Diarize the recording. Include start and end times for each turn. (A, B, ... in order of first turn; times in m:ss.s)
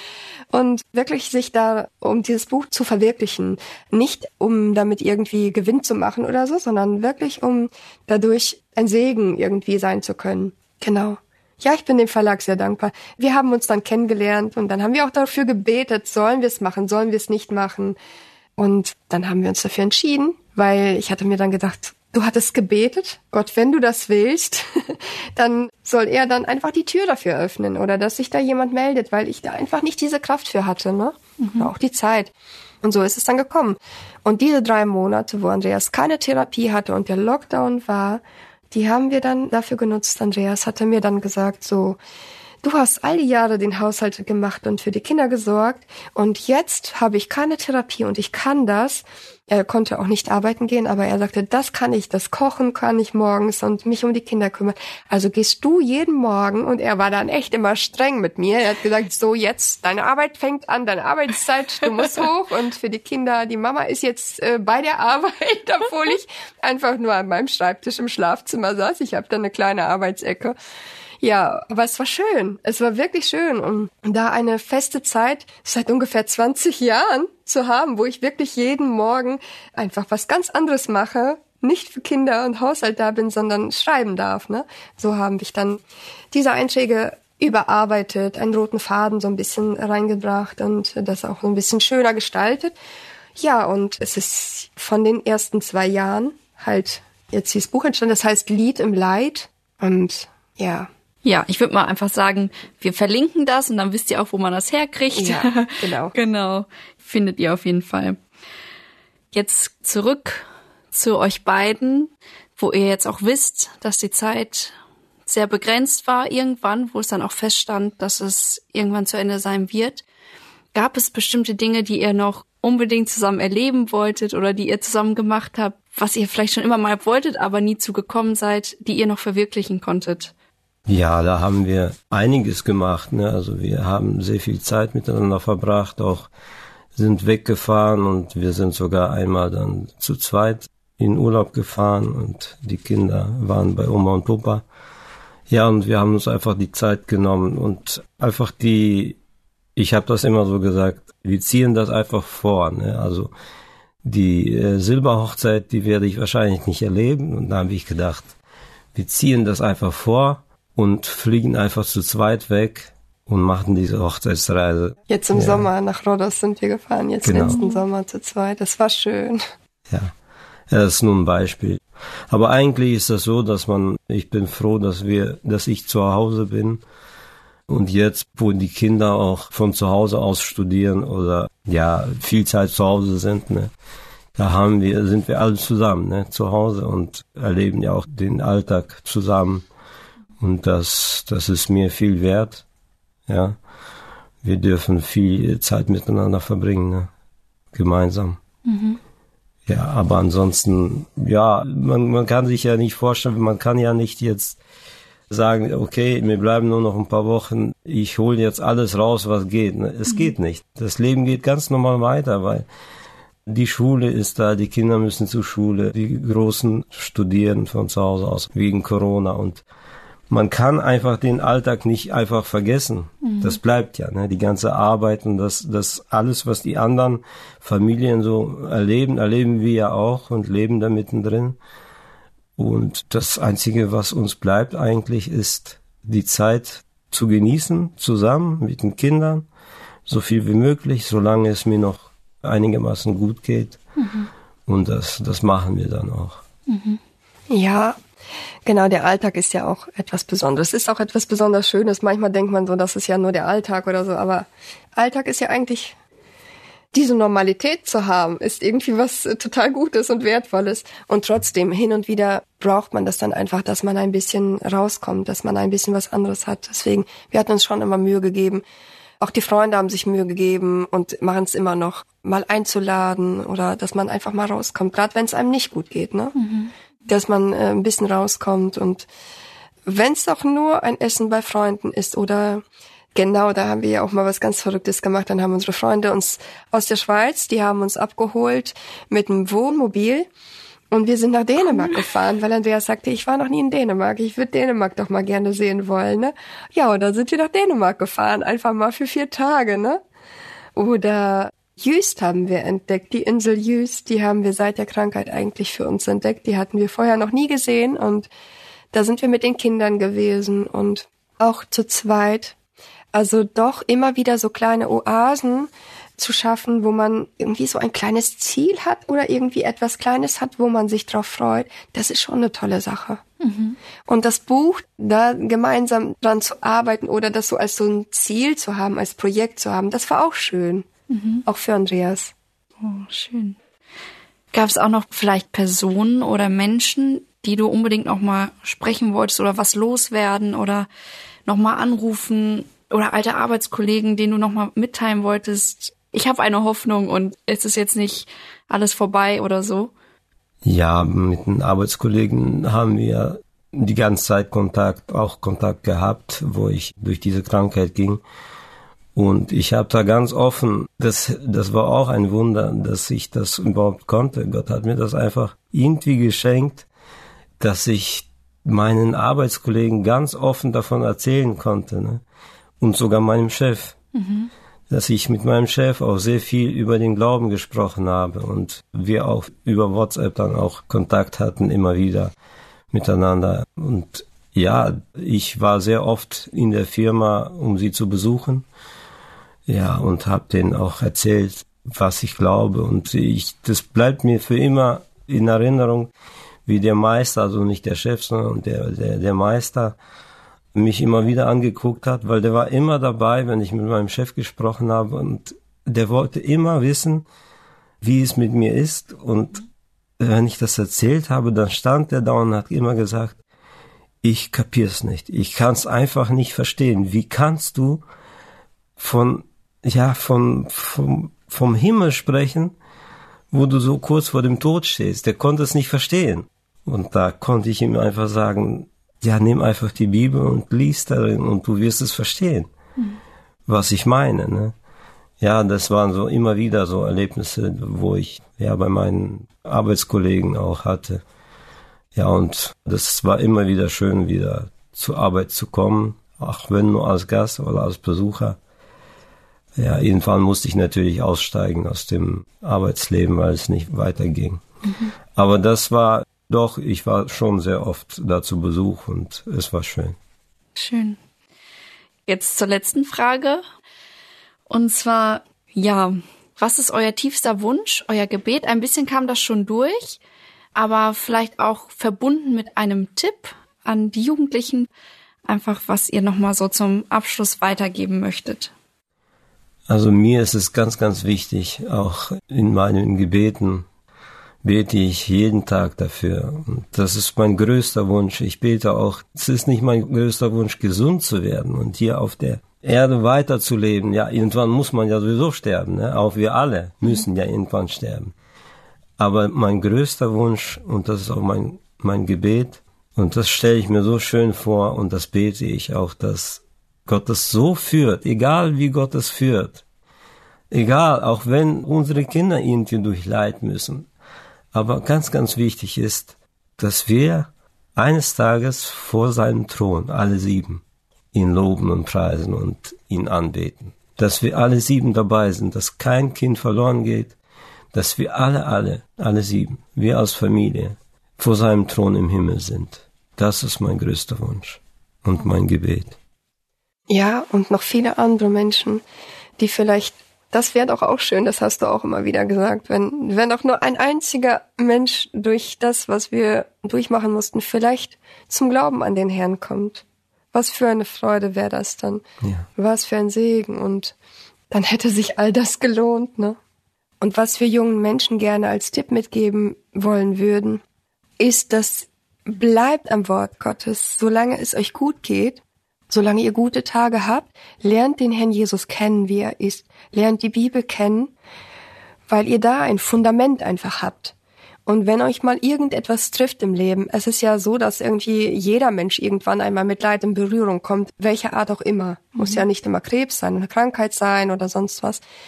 0:00.5-0:18.0 A
0:18.6-0:32.3 A
0:31.4-0:31.7 B
0:32.8-0:42.0 A
0:42.6-1:10.6 A
1:11.2-1:25.8 A
1:26.3-1:32.7 A
1:33.4-1:40.9 A
1:41.2-1:48.2 B
1:45.1-1:46.1 A
1:49.3-2:00.0 B
2:00.7-2:10.3 B
2:10.9-2:16.3 C
2:17.0-2:24.6 C
2:25.5-2:29.2 C
2:29.8-2:33.3 C
2:34.0-2:38.3 C
2:38.9-2:45.6 C
2:45.1-2:49.4 A
2:47.2-2:47.6 C
2:47.4-2:47.8 B
2:50.7-2:56.8 C
2:57.7-3:03.7 C
3:04.4-3:09.6 C
3:10.4-3:12.6 C
3:13.3-3:13.6 C
3:14.4-3:17.1 C
3:17.7-3:18.4 C
3:18.6-3:19.0 B
3:19.7-3:24.6 C
3:25.3-3:32.7 C
3:30.1-3:30.3 B
3:33.4-3:39.6 C
3:40.3-3:51.6 C
3:43.2-3:43.6 B
3:52.6-3:59.5 C
4:00.0-4:03.8 C
4:04.0-4:04.3 B
4:04.7-4:06.4 C
4:06.7-4:07.0 B
4:07.5-4:08.0 A
4:08.6-4:16.0 A
4:16.9-4:28.6 A
4:29.2-4:36.4 A
4:36.4-4:36.7 B
4:37.0-4:39.1 A
4:39.8-4:42.6 A
4:43.1-4:50.3 A
4:50.9-5:00.0 A
5:00.8-5:08.3 A
5:08.9-5:12.5 A
5:13.1-5:23.2 A
5:23.4-5:23.8 B
5:24.1-5:30.8 A
5:31.1-5:31.4 B
5:31.4-5:32.3 A
5:32.8-5:33.6 B
5:34.5-5:40.9 B
5:41.4-5:49.9 B
5:50.6-5:58.2 C
5:59.1-6:06.9 C
6:07.6-6:12.2 C
6:12.8-6:14.0 C
6:14.1-6:14.5 B
6:14.9-6:22.3 C
6:22.9-6:28.7 C
6:29.7-6:36.1 C
6:36.6-6:40.0 C
6:40.7-6:47.2 C
6:48.0-6:49.6 C
6:50.2-6:53.4 C
6:54.2-6:58.0 C
6:59.0-7:02.7 C
7:03.5-7:12.7 C
7:13.7-7:14.8 C
7:15.4-7:21.2 C
7:22.1-7:28.6 C
7:29.8-7:34.6 C
7:34.9-7:35.1 B
7:35.4-7:40.2 C
7:40.8-7:41.2 B
7:42.2-7:43.6 B
7:44.7-7:50.2 B
7:50.7-7:54.9 B
7:55.4-7:58.7 B
7:59.9-8:03.9 C
8:04.6-8:18.3 C
8:19.2-8:29.8 C
8:30.7-8:34.1 C
8:34.7-8:47.4 C
8:47.9-8:56.2 C
8:57.1-8:59.0 A
8:59.6-9:12.2 A
9:12.8-9:14.1 A
9:14.7-9:16.6 A
9:17.2-9:20.8 A
9:21.4-9:31.3 A
9:32.3-9:34.3 A
9:34.8-9:45.2 A
9:42.4-9:42.6 B